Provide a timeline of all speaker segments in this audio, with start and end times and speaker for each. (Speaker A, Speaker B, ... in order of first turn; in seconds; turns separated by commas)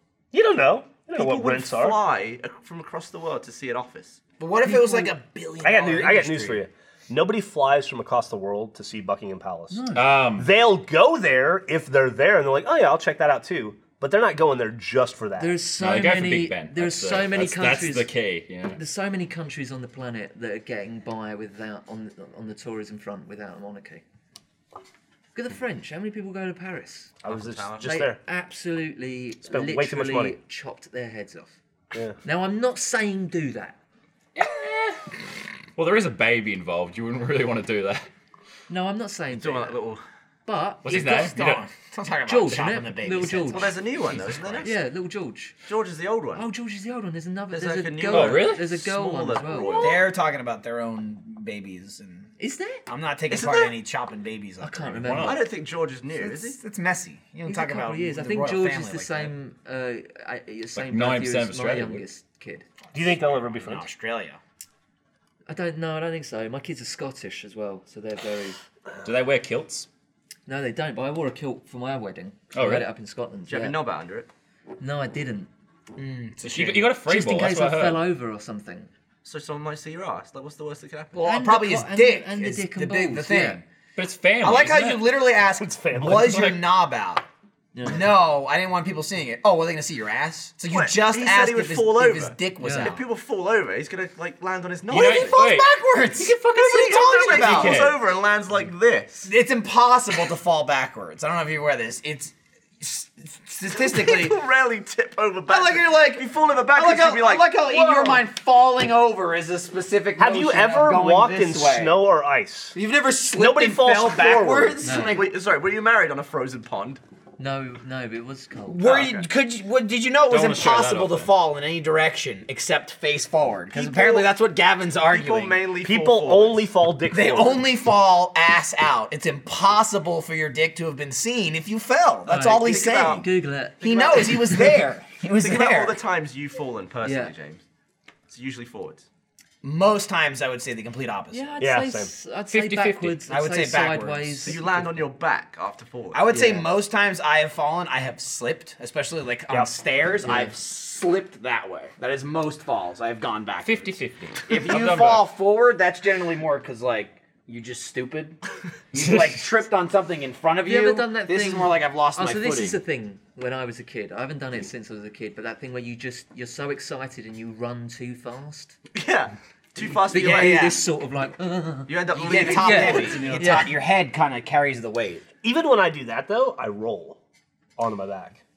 Speaker A: 0.3-2.0, Speaker B: 1.1-4.2, Speaker C: 4.4-6.6, Speaker D: 4.6-5.1, Speaker A: 5.6-15.5, Speaker D: 9.7-10.2, Speaker E: 9.9-10.5, Speaker D: 15.4-18.1, Speaker E: 15.8-18.8, Speaker D: 18.8-24.0, Speaker D: 25.3-27.1, Speaker A: 27.2-28.2, Speaker B: 27.2-28.0, Speaker D: 27.8-31.5, Speaker A: 29.4-30.4, Speaker A: 31.9-32.2, Speaker D: 32.2-33.8, Speaker E: 34.3-35.1, Speaker E: 35.8-38.1, Speaker D: 38.7-39.8, Speaker B: 39.3-40.0, Speaker D: 40.5-41.1, Speaker E: 40.8-41.7, Speaker C: 40.9-44.6, Speaker D: 42.3-43.8, Speaker B: 43.5-44.7, Speaker D: 44.6-45.5, Speaker B: 45.6-46.4, Speaker D: 46.3-50.0, Speaker B: 47.5-50.1, Speaker E: 48.1-48.7, Speaker C: 49.8-52.3, Speaker D: 52.4-52.8, Speaker C: 52.9-55.2, Speaker B: 53.3-53.8, Speaker D: 54.6-55.4, Speaker E: 55.0-55.4, Speaker B: 55.2-56.6, Speaker C: 56.1-59.3, Speaker D: 57.5-62.6, Speaker E: 60.7-62.0, Speaker A: 62.9-63.9, Speaker C: 62.9-64.4, Speaker D: 65.5-68.6, Speaker E: 69.0-69.9, Speaker D: 70.5-73.8, Speaker E: 72.5-72.9, Speaker B: 73.5-74.3, Speaker D: 74.8-75.5, Speaker C: 76.0-77.0, Speaker E: 76.4-78.0, Speaker D: 77.0-78.9, Speaker B: 79.2-81.1, Speaker C: 81.1-83.6, Speaker D: 81.2-83.6, Speaker E: 84.0-85.2, Speaker C: 84.4-87.2, Speaker A: 85.6-86.5, Speaker E: 86.0-86.7, Speaker D: 87.7-88.1, Speaker C: 87.8-93.0, Speaker B: 90.7-95.4, Speaker D: 92.6-92.9, Speaker C: 94.9-97.9, Speaker E: 94.9-98.0, Speaker B: 96.6-99.3, Speaker C: 99.2-104.4, Speaker B: 103.7-107.7, Speaker C: 105.5-112.0, Speaker A: 107.7-108.2, Speaker A: 110.2-112.8, Speaker C: 112.7-115.3, Speaker A: 113.3-114.8, Speaker D: 114.8-115.2, Speaker B: 115.0-117.0, Speaker D: 117.4-119.0, Speaker C: 118.7-125.6, Speaker B: 118.8-119.3, Speaker E: 120.3-121.3, Speaker B: 123.7-124.3, Speaker B: 125.1-126.7, Speaker A: 125.8-127.7, Speaker C: 127.1-133.3, Speaker D: 132.3-134.8, Speaker B: 132.5-133.3, Speaker C: 133.8-136.0, Speaker B: 133.8-134.7, Speaker B: 135.3-137.6, Speaker D: 137.0-137.3, Speaker B: 138.3-139.1, Speaker C: 139.6-141.6, Speaker D: 141.3-145.0, Speaker A: 141.6-142.1, Speaker E: 142.5-143.2, Speaker C: 143.3-144.6, Speaker B: 144.4-146.3, Speaker C: 146.1-158.4, Speaker D: 146.3-146.7, Speaker D: 150.2-150.5, Speaker E: 153.6-155.3, Speaker C: 158.9-162.8, Speaker E: 158.9-159.4, Speaker D: 160.6-168.8, Speaker B: 168.9-170.7, Speaker D: 169.8-173.7, Speaker C: 170.1-170.8, Speaker B: 171.9-173.6, Speaker C: 172.1-175.3, Speaker A: 175.4-177.2, Speaker A: 177.8-178.4